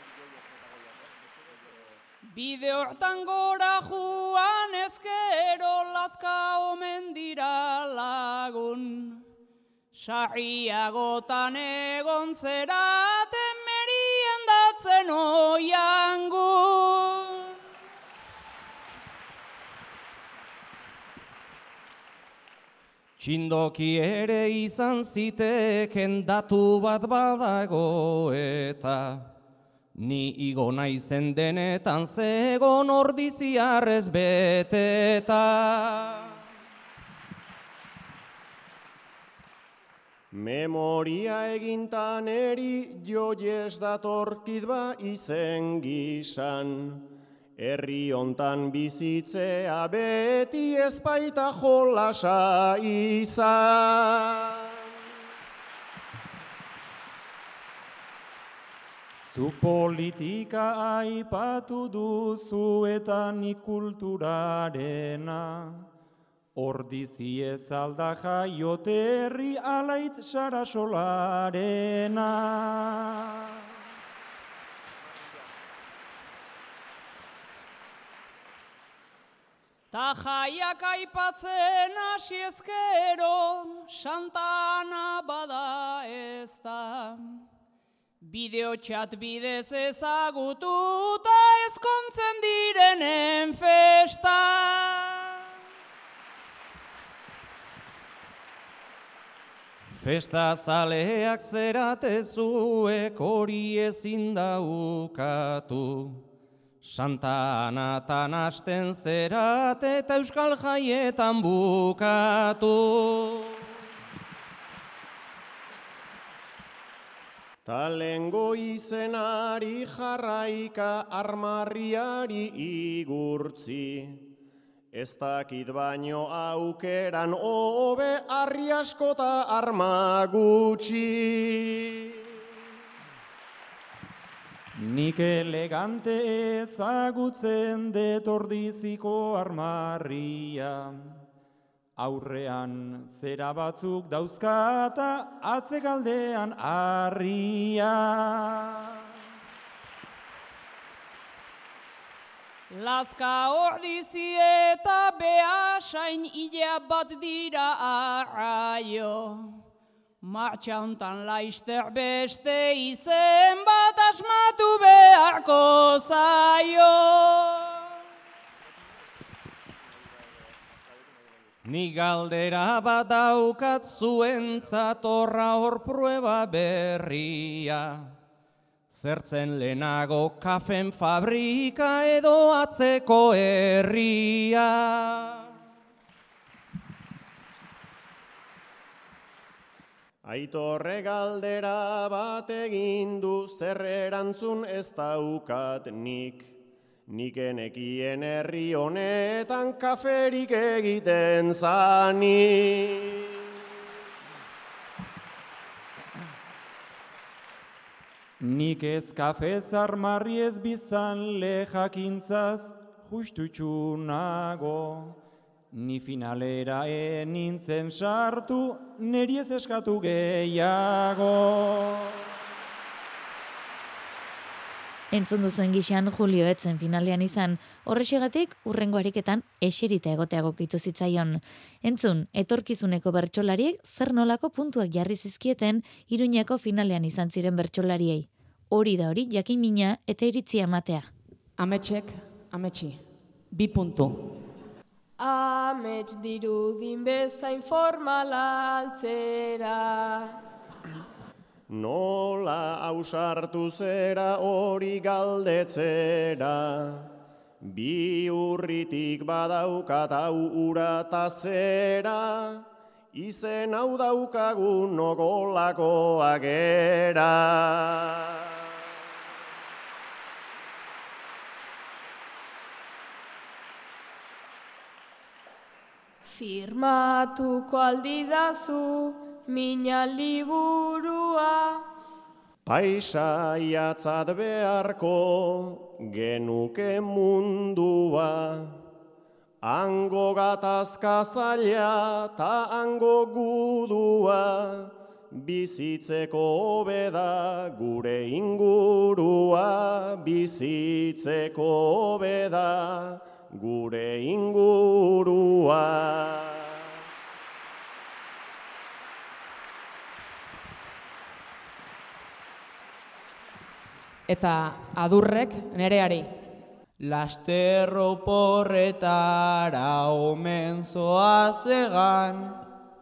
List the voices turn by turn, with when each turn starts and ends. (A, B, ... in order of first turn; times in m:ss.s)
0:02.3-0:09.3 A
0:09.9-0:17.5 A
0:23.2-0:29.3 B
0:30.0-0:36.3 B
0:40.3-0:54.9 C
0:59.2-1:05.9 D
1:06.6-1:13.4 D
1:19.9-1:27.4 A
1:28.2-1:35.4 A
1:39.9-1:46.2 B
1:46.8-1:53.6 B
1:57.6-2:04.3 C
2:04.9-2:12.3 C
2:14.8-2:21.2 D
2:22.0-2:29.0 D
2:32.7-2:39.6 A
2:40.2-2:47.9 A
2:51.7-2:58.1 B
2:58.9-3:05.4 B
3:10.2-3:23.4 C
3:28.4-3:35.2 D
3:35.7-3:42.3 D
3:45.1-4:01.1 E
4:01.6-4:03.0 F
4:03.5-4:04.3 F
4:05.2-4:10.4 G
4:11.7-4:28.6 C
4:36.3-4:41.8 G
4:42.7-4:48.8 C
4:49.6-5:06.9 C
5:14.3-5:16.3 F
5:17.0-5:22.4 H